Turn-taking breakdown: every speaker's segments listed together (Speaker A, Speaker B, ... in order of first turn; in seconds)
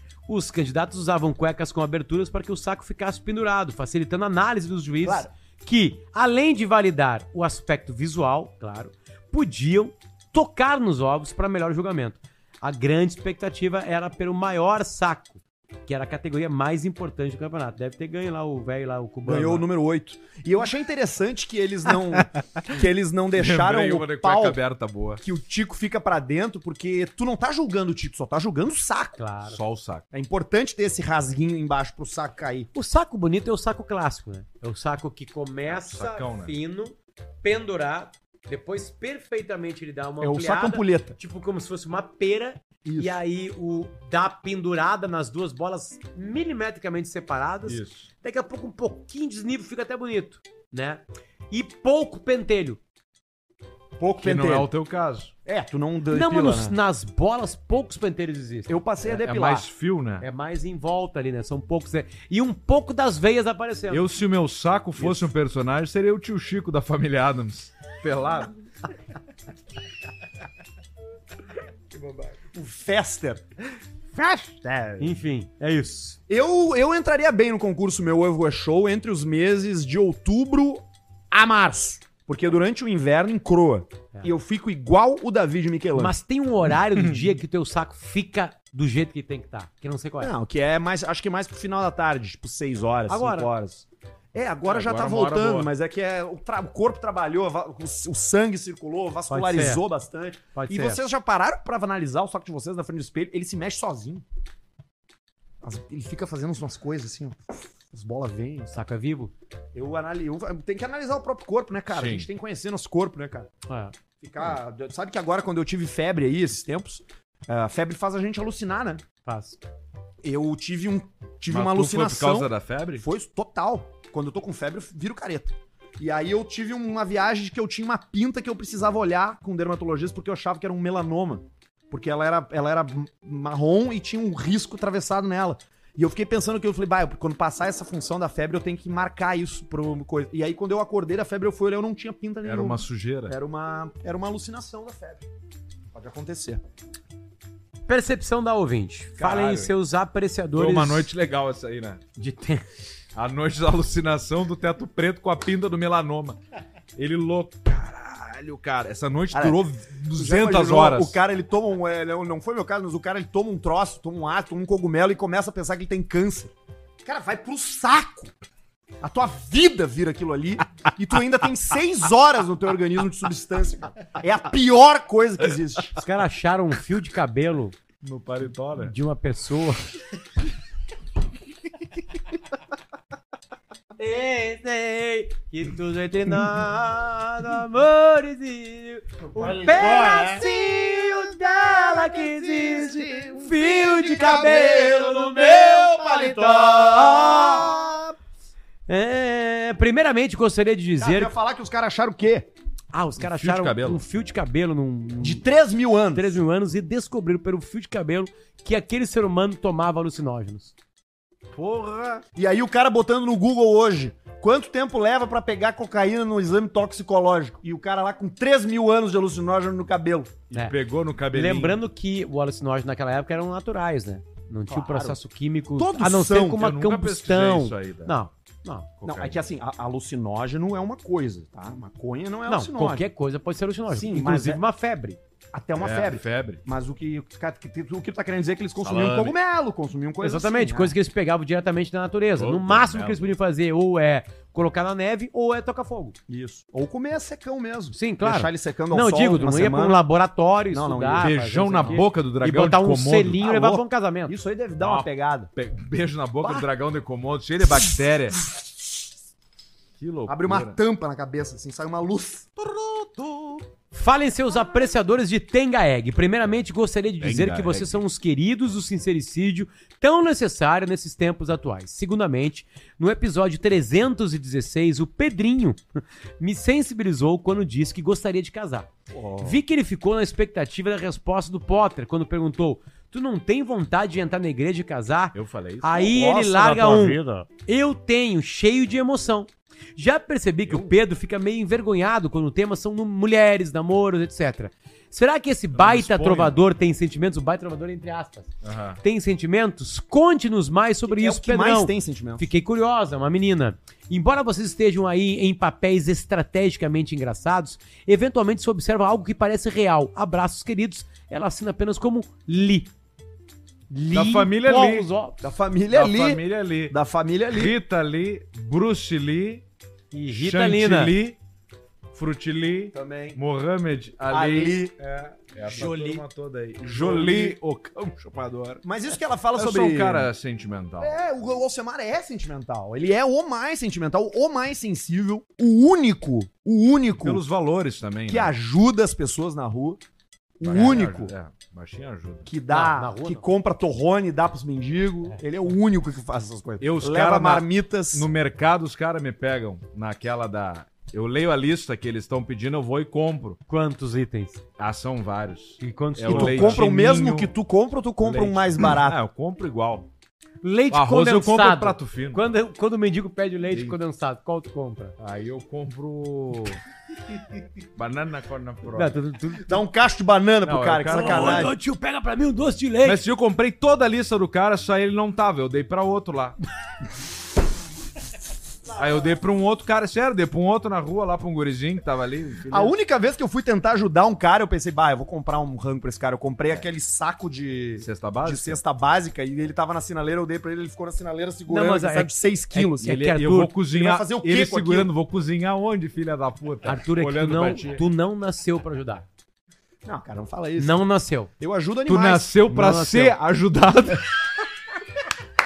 Speaker A: 0.3-19.7, 29.2-29.6, 32.7-52.8, 56.1-58.8, 60.2-64.1, 75.0-76.2, 86.0-90.3, 93.1-93.5, 99.3-99.8, 100.6-101.0, 108.7-109.3, 113.7-114.0, 119.2-119.6, 147.9-151.1, 152.2-152.6, 176.0-177.8, 178.8-179.9, 184.0-197.7, 198.9-201.3, 202.9-205.4, 206.1-210.7, 221.3-228.9, 232.5-235.2, 240.2-246.2, 247.9-254.4, 263.9-278.9, 279.4-298.5, 299.0-312.9, 313.9-315.4, 320.1-321.1, 325.6-326.2, 342.7-343.4, 353.7-354.6, 355.8-356.8, 360.6-365.1, 368.9-369.7, 371.1-373.2, 391.7-393.7, 396.9-399.3, 400.8-401.5, 402.7-403.4
Speaker B: 5.0-5.3, 19.2-24.6, 25.2-29.2, 30.1-32.7, 40.2-41.2, 42.8-43.2, 54.0-54.7, 55.5-56.8, 58.7-59.7, 72.5-73.4, 74.2-75.2, 76.3-86.2, 90.2-104.2, 105.6-108.8, 109.7-113.5, 114.2-119.0, 120.2-145.2, 145.9-146.6, 159.3-159.6, 160.1-166.5, 167.1-168.3, 169.0-176.0, 189.4-198.2, 201.0-202.5, 205.2-206.4, 212.4-220.4, 224.7-225.2, 225.8-226.7, 229.0-233.1, 233.9-234.6, 235.5-240.9, 246.3-250.1, 250.7-251.3, 253.4-255.5, 256.4-256.7, 258.4-259.0, 260.3-262.8, 279.1-279.6, 286.0-287.4, 301.1-302.5, 315.4-317.8, 322.9-323.4, 324.3-325.0, 326.8-327.6, 328.8-330.3, 331.0-337.4, 338.3-340.0, 340.6-341.3, 342.5-348.3, 356.3-359.2, 369.6-371.7, 382.7-393.2, 393.9-395.1, 400.0-401.1, 401.6-402.5
Speaker C: 23.4-25.2, 29.5-30.0, 35.7-36.5, 47.7-48.1, 54.2-55.3, 59.0-60.3, 63.9-68.5, 94.7-95.7, 111.9-112.3, 121.5-123.0, 142.4-143.3, 149.2-149.7, 150.6-152.0, 153.2-156.4, 157.0-161.2, 178.0-178.9, 203.2-204.0, 211.5-212.2, 220.5-221.8, 226.5-228.2, 229.0-229.3, 235.8-236.6, 238.8-239.3, 242.4-243.3, 251.2-253.6, 254.8-258.4, 260.0-260.8, 262.8-263.2, 267.2-268.0, 285.3-287.4, 290.7-290.9, 295.8-296.6, 298.6-299.0, 314.1-315.1, 315.9-317.0, 317.5-319.6, 320.3-321.4, 322.1-328.8, 329.6-331.1, 337.2-338.5, 340.6-342.5, 346.8-353.6, 354.8-357.5, 358.2-360.1, 360.9-362.4, 363.7-364.0, 365.2-366.8, 367.9-369.2, 370.6-371.7, 373.0-376.6, 378.9-382.9, 388.0-388.8, 393.0-398.1, 402.1-404.4